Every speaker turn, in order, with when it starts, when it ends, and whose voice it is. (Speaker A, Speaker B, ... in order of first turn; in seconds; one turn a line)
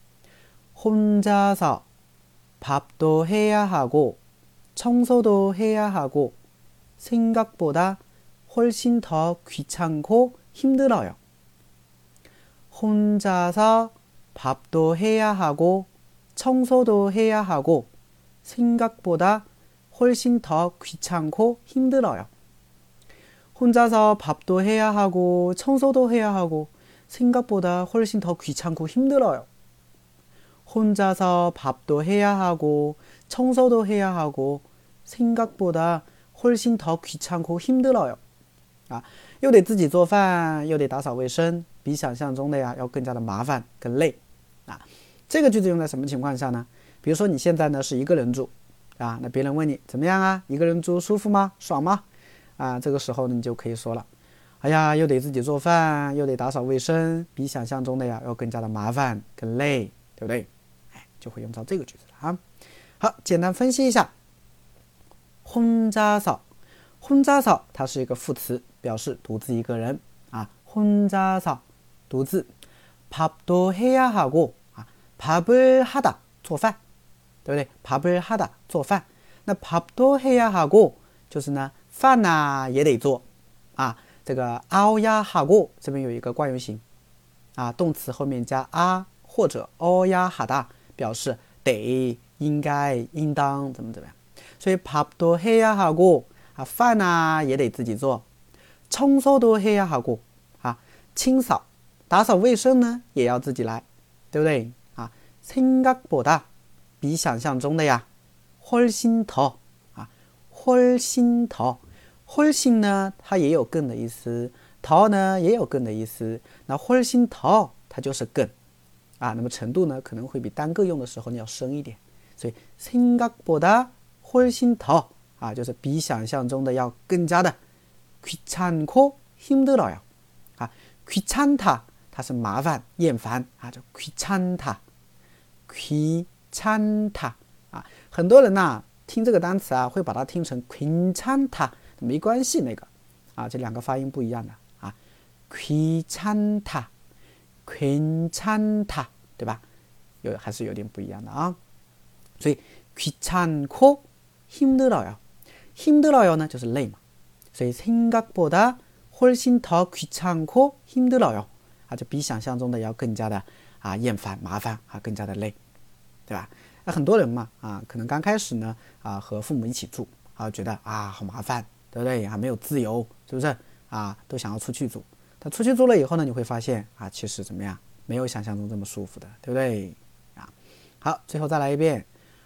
Speaker A: 0.8-1.9
Speaker A: 2.6-4.2
Speaker A: 4.8-6.4
Speaker A: 7.0-11.2
Speaker A: 12.7-17.9
Speaker A: 18.4-22.3
Speaker A: 23.6-29.5
Speaker A: 30.7-38.2
Speaker A: 38.9-52.0
Speaker A: 52.6-54.1
Speaker A: 54.6-60.5
Speaker A: 61.0-62.4
Speaker A: 63.0-64.1
Speaker A: 65.5-66.4
Speaker A: 67.0-72.5
Speaker A: 73.1-76.8
Speaker A: 77.5-83.2
Speaker A: 83.8-86.8
Speaker A: 87.6-98.2
Speaker A: 98.9-106.5
Speaker A: 107.0-108.0
Speaker A: 108.6-118.5
Speaker A: 119.2-127.6
Speaker A: 128.2-130.0
Speaker A: 130.6-134.8
Speaker A: 135.7-145.0
Speaker A: 145.5-146.9
Speaker A: 147.7-149.6
Speaker A: 150.2-151.6
Speaker A: 152.4-155.2
Speaker A: 155.8-157.0
Speaker A: 157.5-165.6
Speaker A: 166.3-182.1